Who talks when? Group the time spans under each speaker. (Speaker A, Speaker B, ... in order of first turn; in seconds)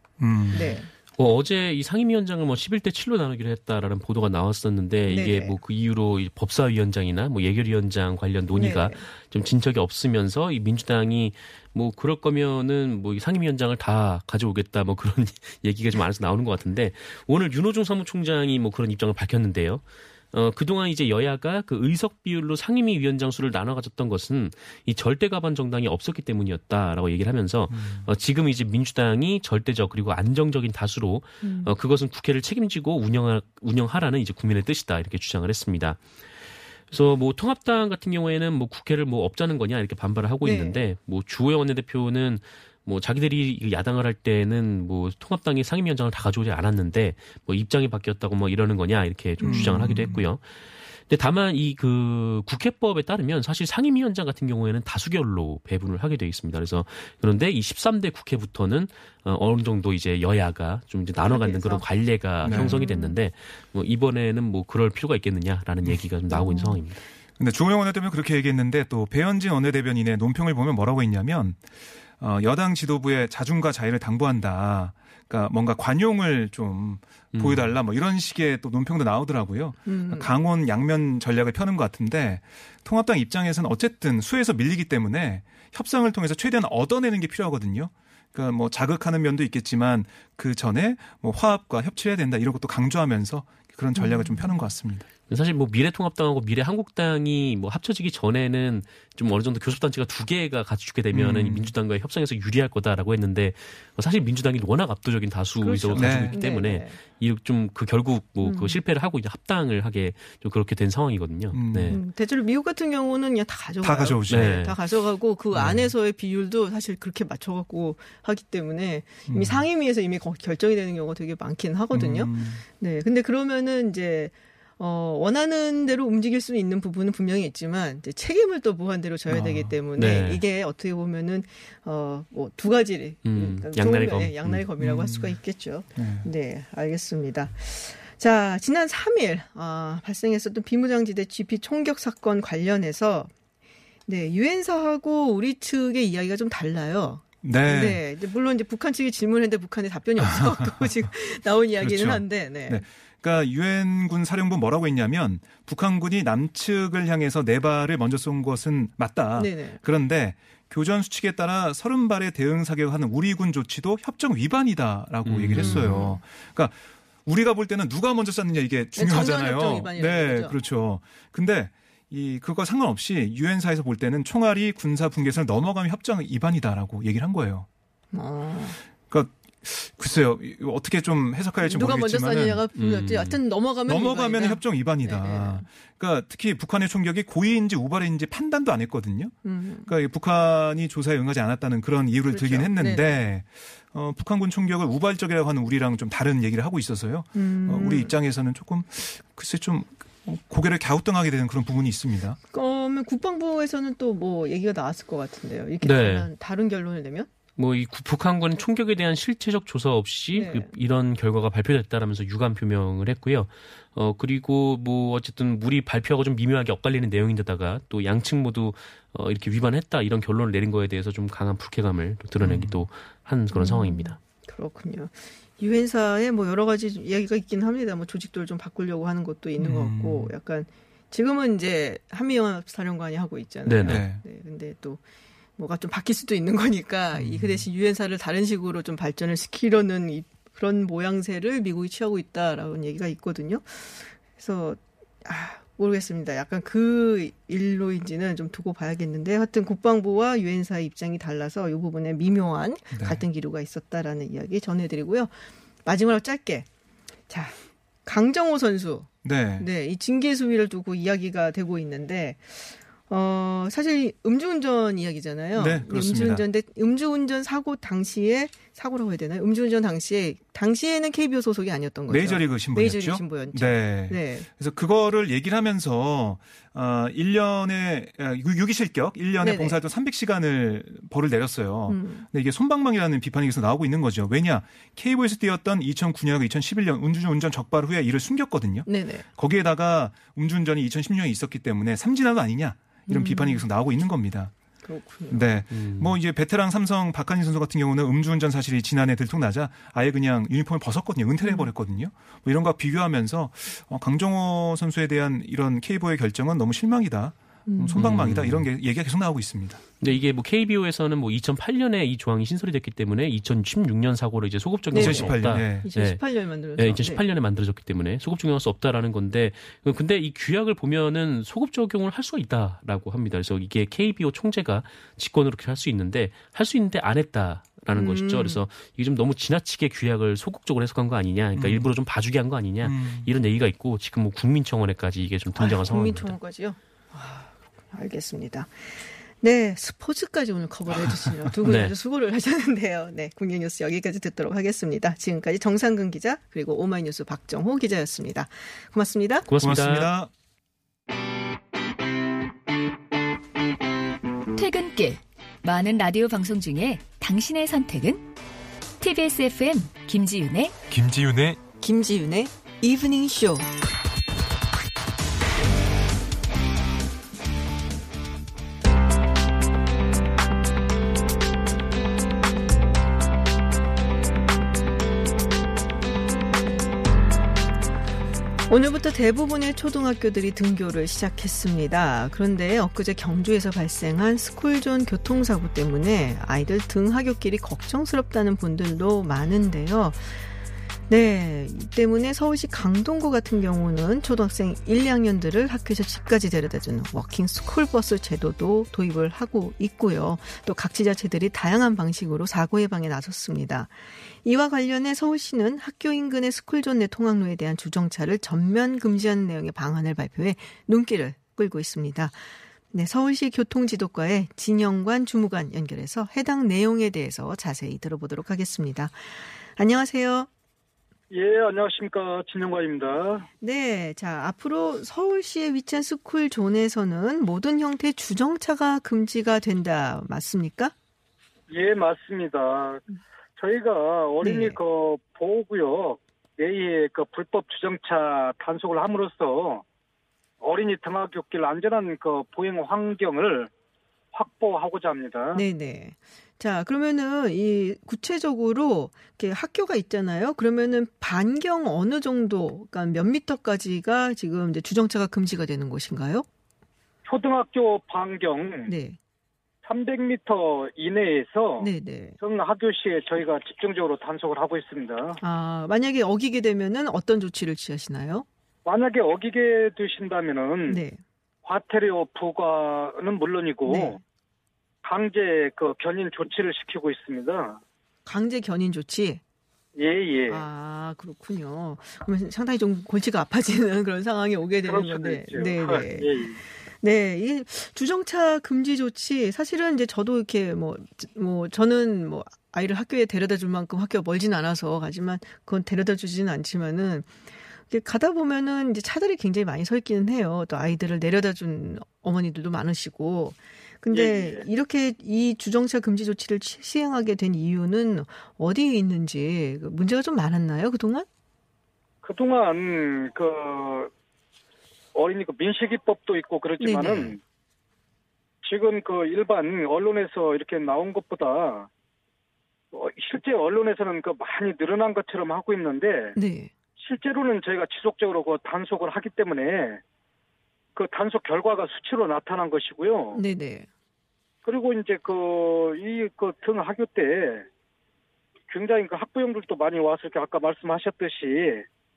Speaker A: 0.2-0.6, 27.7-28.1, 49.4-50.2, 62.4-62.8, 67.4-71.6, 72.2-95.1, 101.1-101.7, 105.9-106.4, 111.5-112.0, 113.8-114.7, 115.5-115.9, 119.3-119.7, 121.9-122.6, 129.3-129.7, 134.8-135.4, 135.9-136.3, 147.4-148.0, 150.2-150.9, 151.8-177.7, 179.1-182.6, 183.9-202.4, 222.4-222.8, 229.6-230.3, 233.8-234.2, 237.1-237.7, 252.9-253.2, 259.2-259.7, 265.6-266.4, 272.1-294.5, 295.3-309.8, 314.9-315.9, 331.5-331.9, 332.8-333.3, 349.6-350.3, 360.9-361.6
Speaker B: 0.5-0.9, 5.1-5.6, 8.6-9.0, 31.4-31.7, 40.4-40.8, 49.4-50.2, 61.2-61.9, 62.5-63.2, 66.3-66.8, 79.9-80.3, 94.0-94.5, 105.6-107.0, 108.4-108.8, 111.9-143.3, 144.1-152.8, 159.4-159.8, 165.6-166.2, 169.0-170.6, 178.1-178.8, 181.6-185.7, 189.4-189.9, 192.3-193.2, 197.3-198.1, 202.5-207.3, 210.3-210.7, 223.5-235.0, 235.6-255.3, 255.8-256.7, 257.3-274.5, 279.4-279.8, 281.9-282.3, 288.9-289.3, 293.1-293.7, 294.9-295.5, 301.4-301.7, 307.7-308.1, 314.9-317.2, 327.9-328.6, 335.6-349.5, 361.8-363.7, 378.7-390.5, 391.1-420.5, 423.6-430.9, 434.4-434.8, 445.5-456.5, 458.9-459.2, 461.8-462.4, 465.4-468.5, 470.9-471.2, 473.9-474.2, 478.3-479.4, 480.5-497.3, 497.9-511.3, 516.8-517.4, 526.4-526.7, 533.3-533.9
Speaker C: 0.5-36.1, 36.9-67.0, 77.3-77.8, 95.3-112.0, 114.3-114.8, 129.9-130.4, 133.2-134.7, 165.3-166.0, 182.8-183.4, 205.8-206.3, 207.6-224.2, 233.7-234.1, 295.7-296.2, 308.0-308.7, 310.0-316.2, 316.8-336.4, 341.6-341.9, 349.5-350.1
Speaker D: 354.6-358.2, 359.0-360.7
Speaker E: 421.3-423.5, 431.7-433.0, 433.6-439.8, 440.6-443.7, 444.3-445.6, 457.3-458.9, 459.8-465.4, 468.9-471.0, 471.6-474.2, 475.0-477.8, 480.0-480.6, 484.9-486.6, 504.1-504.6, 512.2-514.1, 515.1-517.4, 518.6-521.9, 522.9-526.4, 527.0-530.0, 531.0-533.4, 534.6-537.7, 538.7-541.9